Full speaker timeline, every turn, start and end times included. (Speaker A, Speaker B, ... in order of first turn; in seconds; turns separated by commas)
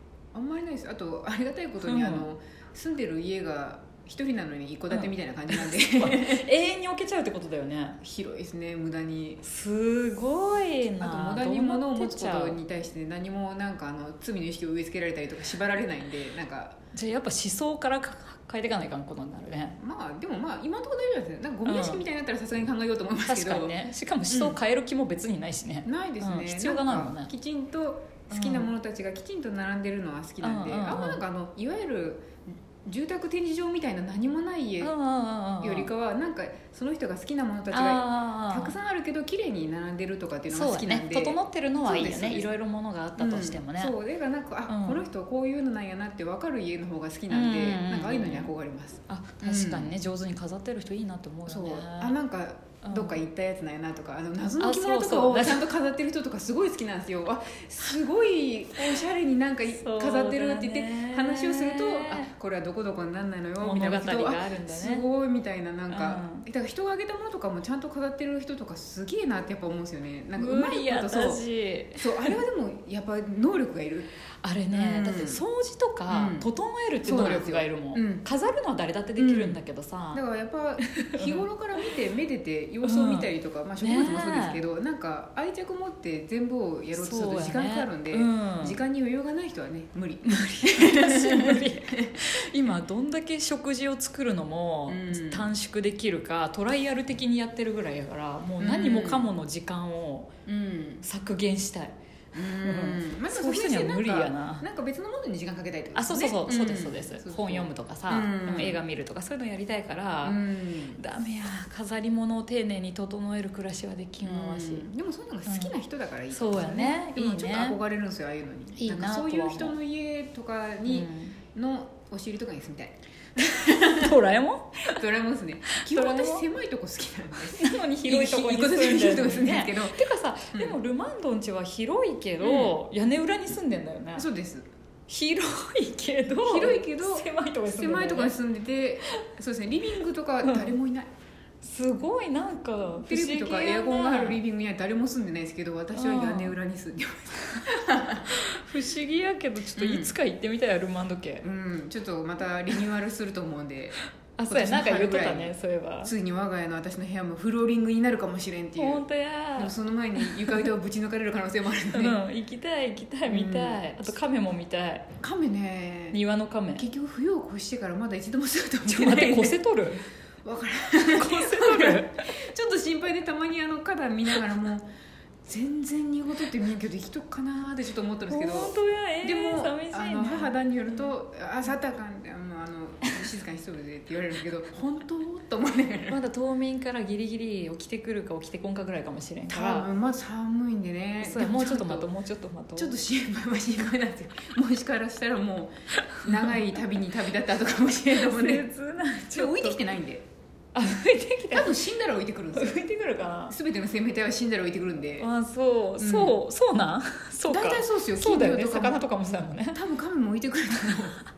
Speaker A: 0.3-6.5, Speaker B: 1.8-2.3, Speaker B: 4.9-8.0, Speaker A: 8.0-9.4, Speaker B: 9.4-12.6, Speaker A: 11.0-16.8, Speaker B: 16.9-19.8, Speaker A: 19.8-24.6, Speaker B: 21.7-22.0, Speaker B: 23.3-27.3, Speaker A: 25.9-32.3, Speaker B: 28.3-28.7, Speaker B: 30.4-31.2, Speaker A: 32.9-34.9, Speaker B: 34.8-35.9, Speaker A: 35.6-42.5, Speaker B: 37.7-38.8, Speaker B: 40.5-44.0, Speaker A: 43.2-49.9, Speaker B: 44.7-45.0, Speaker B: 47.3-48.5, Speaker B: 49.1-52.1, Speaker A: 51.5-71.4, Speaker B: 52.8-53.2, Speaker B: 54.6-55.7, Speaker B: 59.7-62.3, Speaker B: 63.6-65.1, Speaker B: 65.9-66.5, Speaker B: 70.4-72.3, Speaker A: 72.0-74.1, Speaker B: 74.4-80.2, Speaker A: 74.7-75.4, Speaker A: 76.1-76.5, Speaker A: 77.0-78.2, Speaker A: 79.2-79.6, Speaker A: 80.1-92.2, Speaker B: 80.9-81.5, Speaker B: 82.8-83.3, Speaker B: 83.8-84.6, Speaker B: 86.9-88.8, Speaker B: 90.2-100.3, Speaker A: 94.9-95.5, Speaker A: 98.6-99.3, Speaker A: 100.5-101.0, Speaker B: 101.0-101.9, Speaker A: 102.3-108.8, Speaker B: 102.6-104.7, Speaker B: 106.0-110.4, Speaker A: 110.2-111.0, Speaker B: 111.0-114.9, Speaker A: 114.2-124.2, Speaker B: 115.5-115.7, Speaker B: 116.3-117.8, Speaker B: 118.8-119.8, Speaker B: 120.9-121.4, Speaker B: 123.6-125.0, Speaker A: 124.9-130.0, Speaker B: 125.8-126.5, Speaker B: 127.5-134.3, Speaker A: 130.5-130.8, Speaker A: 132.4-132.8, Speaker A: 134.2-134.7, Speaker B: 135.1-138.3, Speaker A: 136.4-141.1, Speaker B: 140.4-140.7, Speaker B: 141.6-144.4, Speaker A: 143.1-148.2, Speaker B: 145.9-146.6, Speaker B: 148.1-151.4, Speaker A: 149.8-150.1, Speaker A: 151.4-159.1, Speaker B: 154.4-156.1, Speaker B: 158.8-160.7, Speaker A: 159.6-162.2, Speaker B: 161.9-165.1, Speaker A: 163.3-164.1, Speaker A: 165.2-166.2, Speaker B: 166.1-166.9, Speaker A: 166.8-169.6, Speaker B: 168.9-170.0, Speaker A: 170.4-174.9, Speaker B: 171.2-172.4, Speaker A: 175.4-186.2, Speaker B: 178.3-181.1, Speaker B: 186.1-189.9, Speaker A: 189.5-192.1, Speaker B: 191.2-193.0, Speaker A: 192.8-198.7, Speaker B: 196.1-196.5, Speaker B: 198.2-199.8, Speaker A: 199.3-200.2, Speaker B: 200.7-201.8, Speaker A: 201.5-202.8, Speaker B: 202.6-203.6, Speaker A: 203.5-205.3, Speaker B: 205.2-209.8, Speaker A: 206.0-206.4, Speaker A: 207.5-209.0, Speaker A: 209.7-211.2